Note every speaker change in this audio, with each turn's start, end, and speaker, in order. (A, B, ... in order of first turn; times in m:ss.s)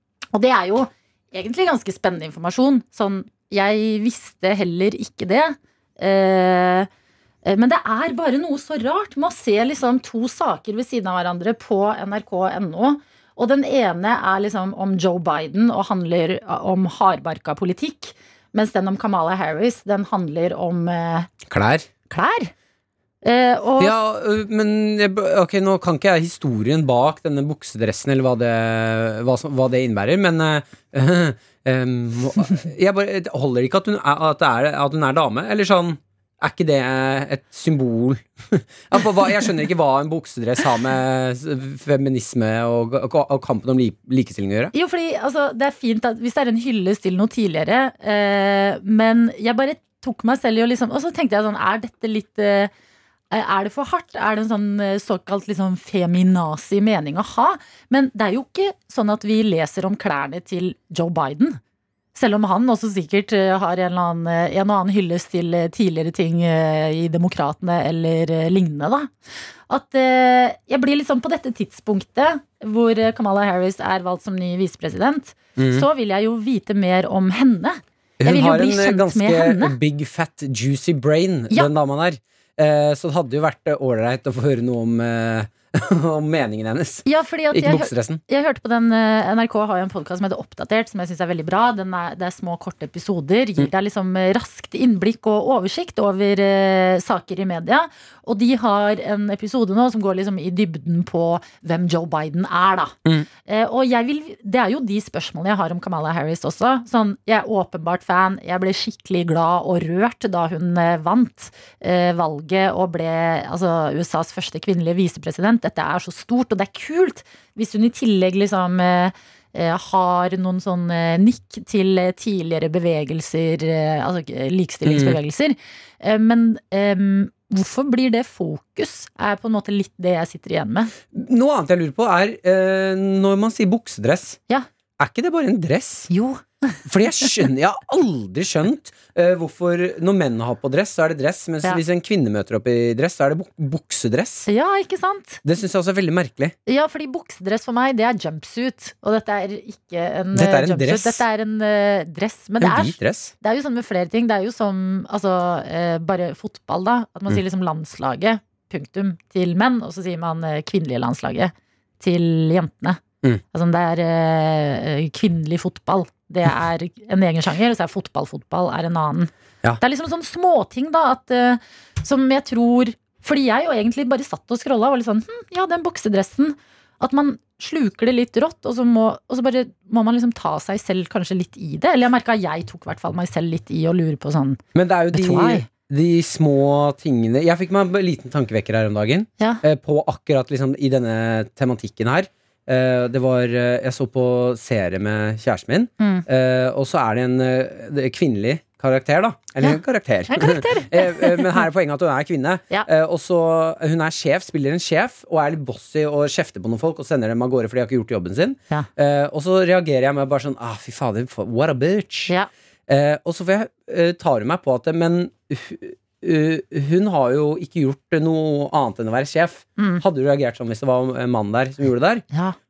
0:00.3-0:06.9 A
0:07.4-0:21.3 A
0:21.5-0:21.9 B
0:22.1-0:22.5 A
0:23.2-0:24.0 A
0:23.8-0:44.7 B
0:44.7-0:52.7 A
0:53.3-1:01.6 A
1:02.2-1:09.1 A
1:09.7-1:19.8 A
1:15.6-1:15.9 B
1:18.2-1:28.2 B
1:27.0-1:43.0 A
1:43.5-2:10.9 A
2:04.8-2:05.2 B
2:11.1-2:14.4 B
2:15.0-2:16.1 B
2:16.1-2:17.3 A
2:16.9-2:24.5 B
2:24.5-2:25.4 A
2:25.4-2:26.6 B
2:26.7-2:43.0 A
2:30.3-2:31.2 B
2:32.6-2:33.3 B
2:43.5-3:04.6 A
3:04.8-3:32.3 B
3:05.1-3:05.7 A
3:16.0-3:16.2 A
3:19.6-3:21.6 A
3:32.9-3:42.2 B
3:39.8-3:40.0 A
3:42.3-3:42.6 A